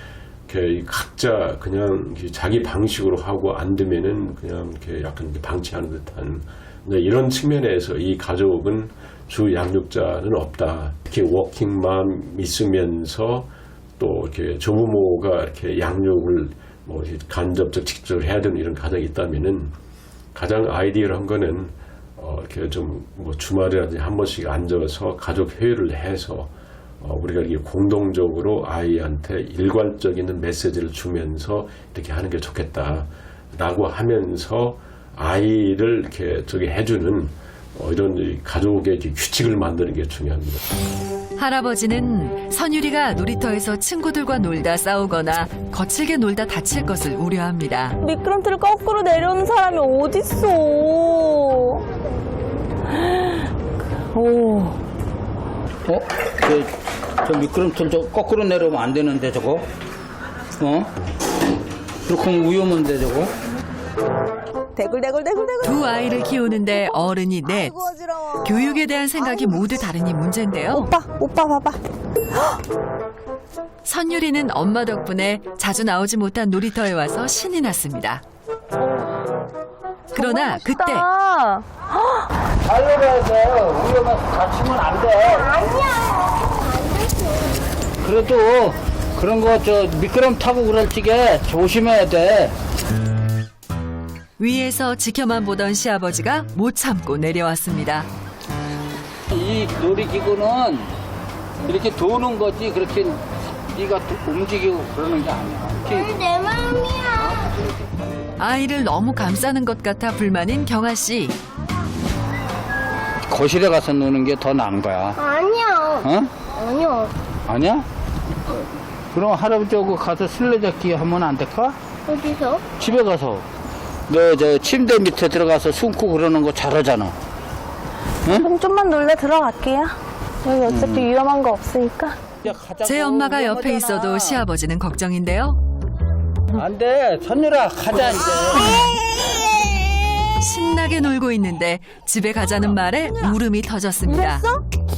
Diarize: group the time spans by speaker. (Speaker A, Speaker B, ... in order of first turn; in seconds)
Speaker A: 0.5-19.8, 20.4-40.7
Speaker B: 41.4-48.0, 65.6-67.8, 68.3-70.9, 73.8-78.2, 80.1-81.1, 94.4-98.1, 108.4-111.4, 132.8-135.6, 140.4-144.5
Speaker C: 48.0-51.9, 53.1-53.5, 54.1-54.8, 70.8-71.8, 80.2-81.7, 128.3-132.2, 144.3-144.6
Speaker D: 55.9-56.7, 57.2-59.7, 60.6-60.9, 62.1-63.3, 82.7-85.4, 88.0-92.5, 99.3-100.9, 101.7-103.2, 103.7-106.1, 113.3-115.2, 116.0-116.3, 117.5-117.8, 119.1-121.8, 122.8-123.4, 124.1-127.2, 130.7-131.0, 132.4-134.3, 136.6-138.6
Speaker E: 106.0-107.1, 115.2-117.1, 122.1-122.7